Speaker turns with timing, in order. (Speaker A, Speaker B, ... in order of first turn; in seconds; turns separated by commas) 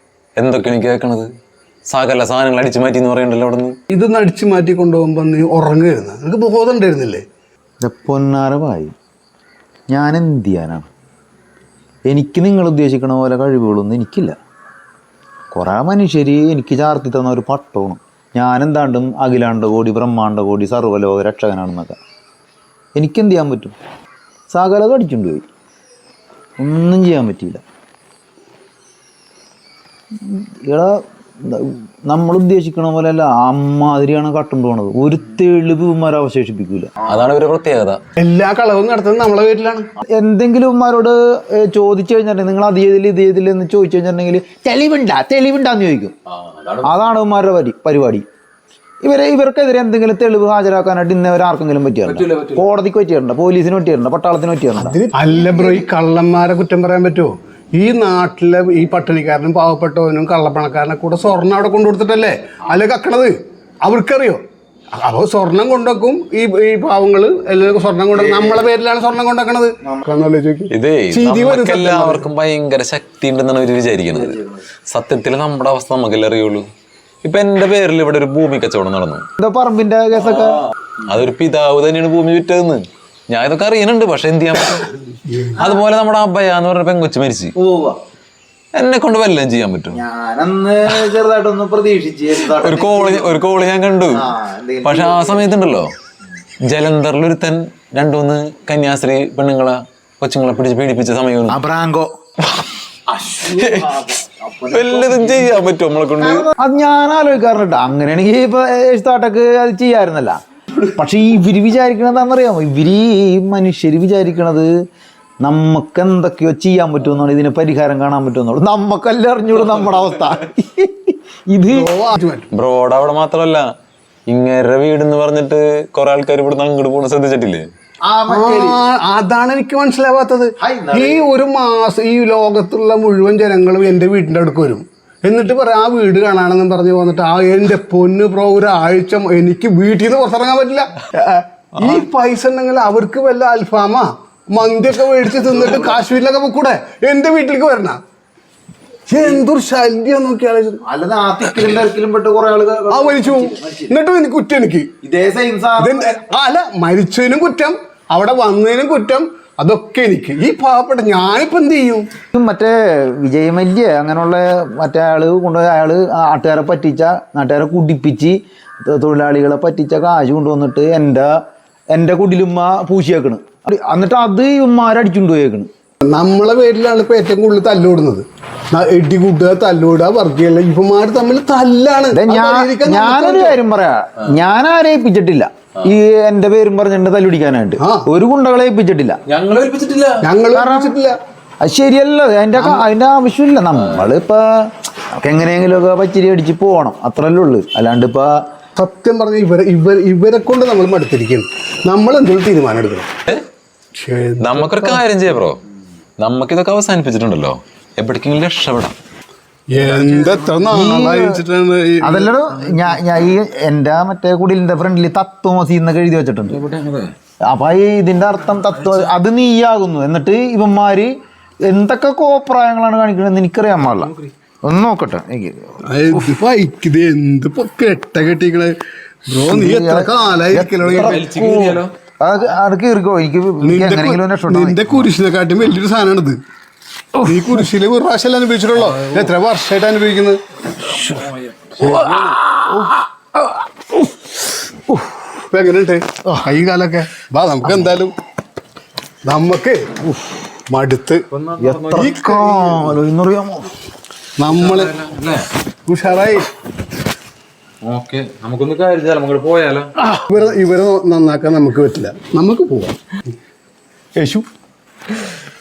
Speaker A: 0.4-1.3, Speaker A: 1.9-3.7, Speaker B: 3.9-7.2, Speaker C: 7.8-8.9, Speaker C: 9.9-10.9, Speaker C: 12.1-14.4, Speaker C: 15.5-22.0, Speaker C: 23.0-23.7, Speaker C: 24.5-25.4, Speaker C: 26.6-27.6, Speaker C: 30.2-37.2, Speaker A: 37.1-38.0, Speaker B: 38.2-39.9, Speaker C: 40.1-46.1, Speaker A: 46.3-47.0, Speaker C: 46.8-48.2, Speaker C: 49.0-55.8, Speaker A: 52.1-52.6, Speaker B: 54.8-64.4, Speaker B: 65.0-72.3, Speaker C: 68.2-68.7, Speaker A: 70.7-76.7, Speaker C: 74.1-74.5, Speaker A: 77.2-79.2, Speaker C: 79.4-80.6, Speaker A: 81.0-85.0, Speaker B: 85.3-85.5, Speaker A: 85.6-87.5, Speaker C: 87.6-88.0, Speaker A: 88.8-90.0, Speaker C: 89.9-93.4, Speaker A: 92.5-94.2, Speaker C: 94.1-95.5, Speaker A: 94.8-95.9, Speaker A: 96.7-101.6, Speaker C: 101.5-102.1, Speaker C: 103.1-105.7, Speaker A: 103.4-104.1, Speaker A: 104.7-106.5, Speaker C: 106.2-110.4, Speaker C: 111.0-114.7, Speaker C: 115.4-121.9, Speaker B: 121.7-122.5, Speaker A: 122.5-123.6, Speaker A: 124.3-127.6, Speaker C: 128.1-128.8, Speaker B: 128.3-148.0, Speaker C: 130.6-131.2, Speaker B: 149.1-150.8, Speaker C: 150.9-153.9, Speaker B: 152.9-154.9, Speaker C: 155.0-156.1, Speaker B: 155.8-162.1, Speaker C: 162.3-171.3, Speaker C: 171.9-175.7, Speaker B: 176.0-183.6, Speaker C: 182.1-189.2, Speaker B: 187.8-188.1, Speaker A: 189.3-190.2, Speaker B: 190.2-191.2, Speaker C: 190.5-191.0, Speaker C: 191.6-198.3, Speaker B: 192.6-192.8, Speaker B: 198.8-203.1, Speaker B: 204.0-205.0, Speaker A: 204.4-205.6, Speaker A: 206.2-208.9, Speaker B: 209.7-212.3, Speaker A: 209.8-210.5, Speaker C: 210.6-211.3, Speaker C: 212.0-216.6, Speaker A: 216.5-217.1, Speaker C: 217.5-221.1, Speaker A: 218.8-219.1, Speaker C: 221.7-225.8, Speaker A: 223.9-224.2, Speaker B: 225.8-228.8, Speaker B: 229.3-231.3, Speaker C: 229.5-234.9, Speaker A: 230.9-231.9, Speaker B: 233.6-236.4, Speaker B: 237.2-240.4, Speaker C: 237.3-237.6, Speaker A: 238.8-239.3, Speaker A: 241.0-241.8, Speaker B: 241.8-242.4, Speaker C: 241.8-245.3, Speaker B: 245.5-248.1, Speaker B: 249.2-249.9, Speaker B: 250.7-251.2, Speaker A: 251.3-252.2, Speaker C: 251.6-253.7, Speaker B: 251.9-253.0, Speaker B: 254.4-254.9, Speaker A: 254.6-255.5, Speaker B: 255.9-256.5, Speaker A: 257.8-259.9, Speaker B: 260.3-263.0, Speaker C: 264.2-264.5